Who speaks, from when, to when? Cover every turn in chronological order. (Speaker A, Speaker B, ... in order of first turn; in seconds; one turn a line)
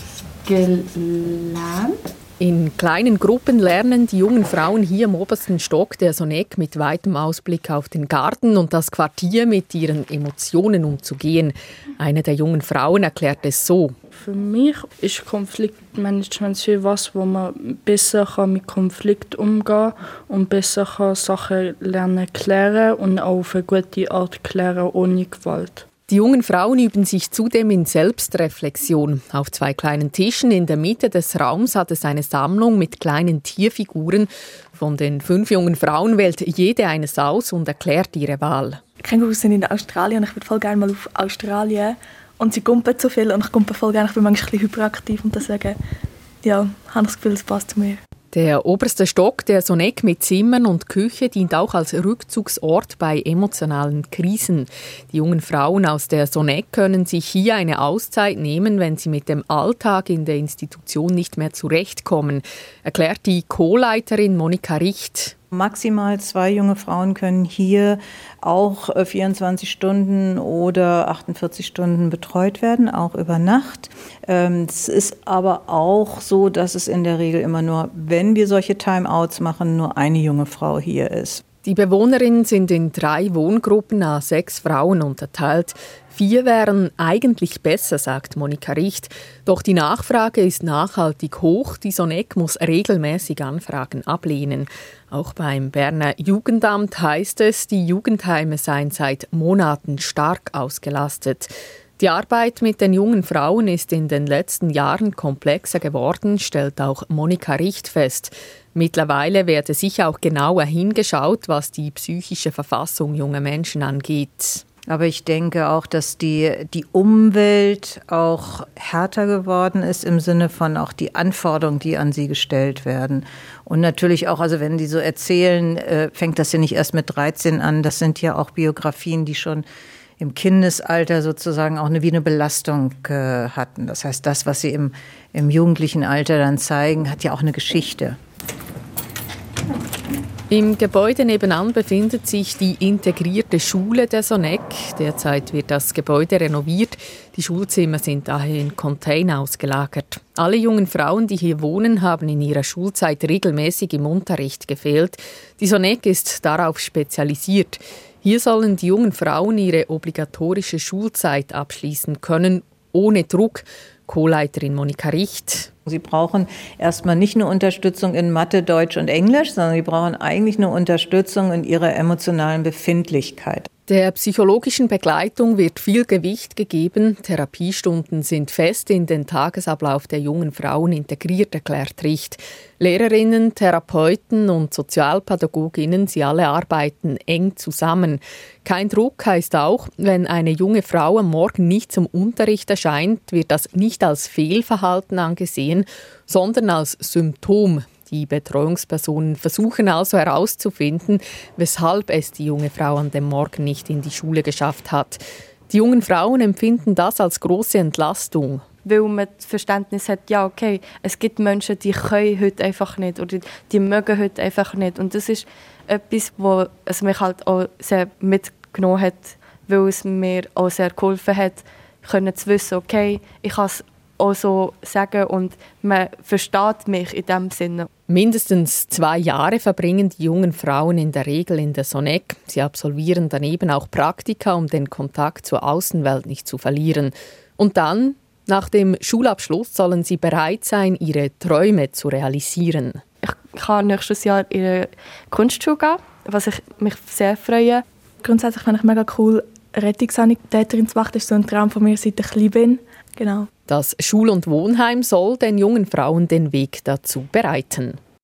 Speaker A: 0.4-2.0
Speaker B: 2.4-13.9
Speaker C: 14.1-25.9
Speaker B: 26.1-38.8
Speaker D: 39.0-45.8
Speaker D: 46.4-48.0
Speaker B: 48.3-65.3
Speaker E: 65.5-81.4
Speaker B: 81.6-114.6
Speaker E: 114.9-129.7
Speaker E: 130.2-138.2
Speaker B: 140.5-165.7
Speaker E: 165.8-173.7
Speaker B: 173.9-208.6
Speaker A: 208.8-227.9
Speaker B: 228.1-243.0
Speaker A: 243.2-247.8
Speaker D: 248.2-253.5
Speaker B: 253.7-258.0